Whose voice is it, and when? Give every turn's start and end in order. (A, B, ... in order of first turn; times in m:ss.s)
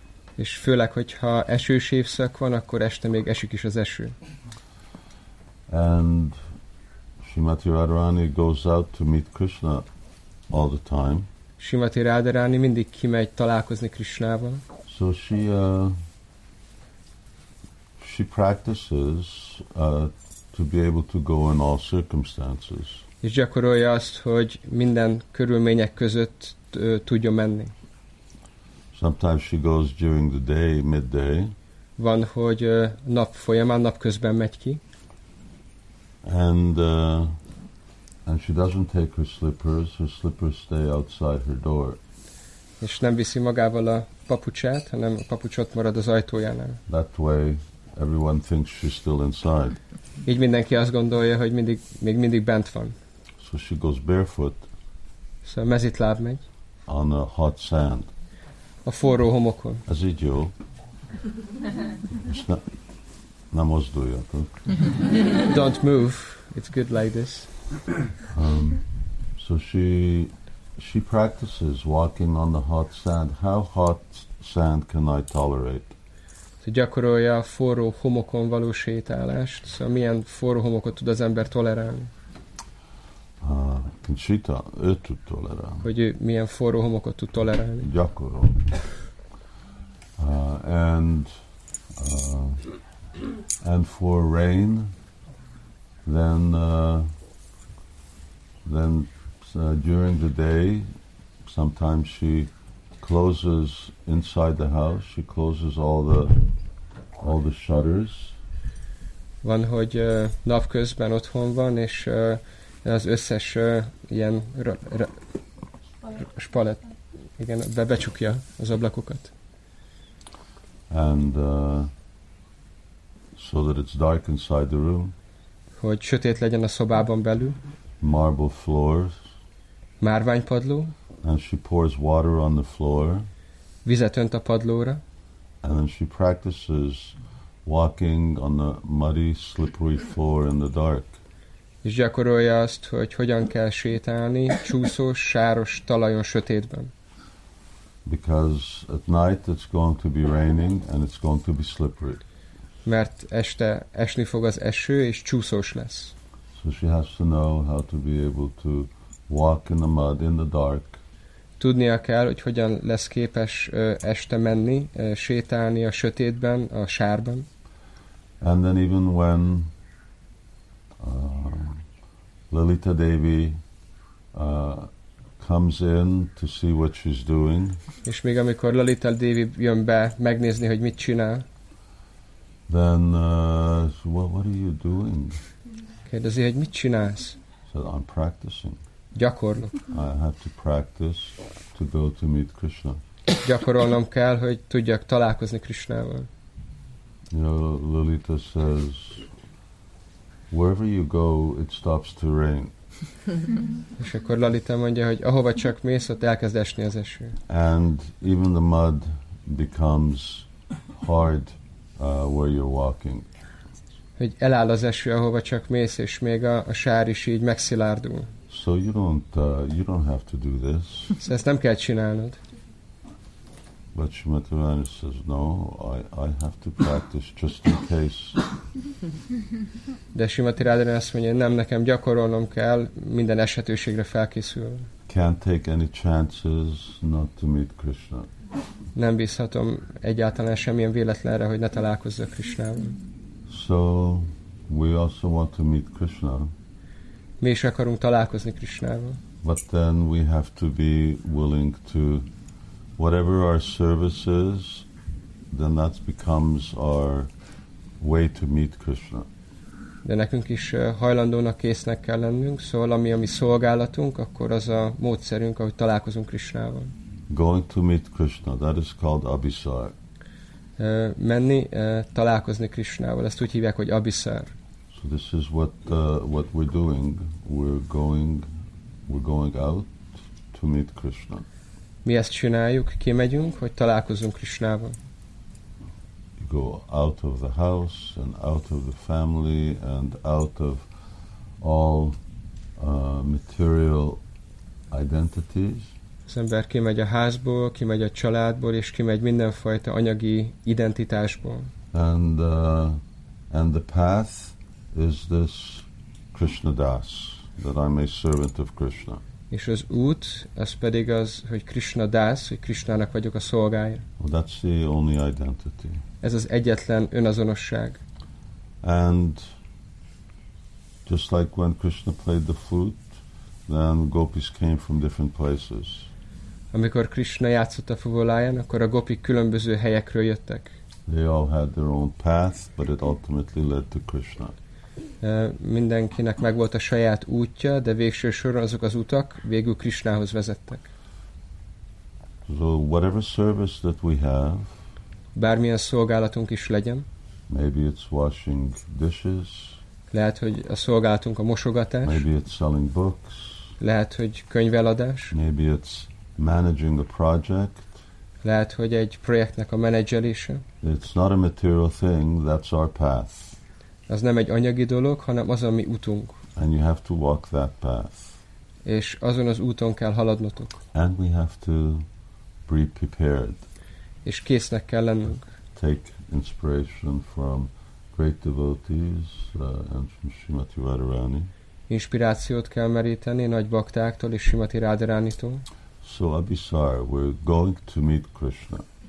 0:00.4-0:04.2 A
0:05.7-0:06.4 B
0:07.2-0:09.9 B
0:10.5-0:11.3 B
0:11.6-0:14.6 A
0:14.9-0:16.0 B
0:18.0-0:23.0 B
0:23.2-0:27.7 A
0:28.9-0:31.5 B
0:32.0-0:34.8 A
0:36.2-0:37.4 B
0:38.3-0:42.0 B
0:42.8-0:46.8 A
0:46.9-0:49.8 B
0:50.2-0:53.0 A
0:53.4-0:54.7 B
0:55.4-0:56.4 A
0:56.9-0:58.1 B
0:58.8-0:59.8 A
0:59.9-1:00.5 B
1:02.2-1:02.6 B
1:03.5-1:04.6 B
1:05.5-1:07.5 A
1:08.3-1:08.8 B
1:09.4-1:16.0 B
1:16.6-1:22.1 A
1:23.4-1:25.9 B
1:25.8-1:27.9 A
1:27.8-1:28.7 B
1:30.2-1:31.3 B
1:32.0-1:32.7 B
1:33.6-1:34.9 B
1:36.0-1:37.1 B
1:38.6-1:40.9 B
1:41.4-1:42.5 B
1:43.0-1:46.4 B
1:47.2-1:48.4 B
1:49.4-1:55.1 A
1:56.1-1:56.9 A
1:57.4-1:59.3 A
2:00.9-2:01.9 B
2:03.4-2:05.1 B
2:05.8-2:07.6 A
2:08.0-2:09.1 B
2:10.0-2:11.0 A
2:11.2-2:13.3 B
2:13.8-2:15.0 A
2:15.6-2:21.2 B
2:21.8-2:26.9 A
2:28.0-2:32.2 B
2:32.8-2:36.1 A
2:36.6-2:41.0 B
2:41.6-2:47.5 A
2:48.4-2:49.7 B
2:51.0-2:51.8 B
2:52.5-2:53.6 B
2:54.3-2:57.8 B
2:58.1-3:01.4 A
3:02.7-3:05.4 B
3:06.1-3:07.4 A
3:07.7-3:08.8 B
3:09.1-3:09.8 A
3:09.9-3:13.0 B
3:13.4-3:16.3 A
3:17.3-3:19.3 B
3:20.5-3:22.7 B
3:24.0-3:27.4 A
3:27.5-3:33.3 B
3:34.2-3:38.3 A
3:38.5-3:41.2 B
3:41.2-3:42.4 A
3:43.9-3:48.4 B
3:50.1-3:54.9 A
3:55.1-3:58.3 B
3:59.0-4:03.0 A
4:03.5-4:06.5 B
4:07.4-4:09.2 A
4:09.4-4:12.3 B
4:13.0-4:14.9 B
4:15.5-4:17.3 B
4:18.0-4:19.3 B
4:20.0-4:26.9 A
4:27.3-4:30.0 B
4:30.8-4:34.5 A
4:34.9-4:38.5 B
4:39.1-4:41.4 B
4:42.0-4:45.0 A
4:46.4-4:50.9 B
4:51.6-4:52.2 B
4:52.8-4:54.2 B
4:54.9-4:55.9 B
4:56.3-5:01.7 A
5:01.9-5:03.0 B
5:03.5-5:09.2 B
5:09.5-5:14.1 A
5:14.2-5:16.0 B
5:16.2-5:18.0 A
5:18.8-5:19.5 B
5:21.1-5:23.1 B
5:23.7-5:26.1 B
5:26.7-5:30.7 A
5:31.1-5:34.6 B
5:35.2-5:40.8 A
5:42.5-5:44.8 B
5:45.4-5:47.1 A
5:47.5-5:49.8 B
5:50.1-5:52.2 A
5:52.0-5:53.8 B
5:53.8-5:55.3 A
5:55.3-5:57.9 B
5:58.4-6:00.6 A
6:00.8-6:03.6 B
6:04.1-6:06.4 A
6:06.6-6:08.4 B
6:08.8-6:10.8 A
6:10.9-6:12.1 B
6:12.7-6:13.6 B
6:14.2-6:15.5 A
6:15.8-6:21.5 B
6:21.9-6:25.6 A
6:26.0-6:28.9 B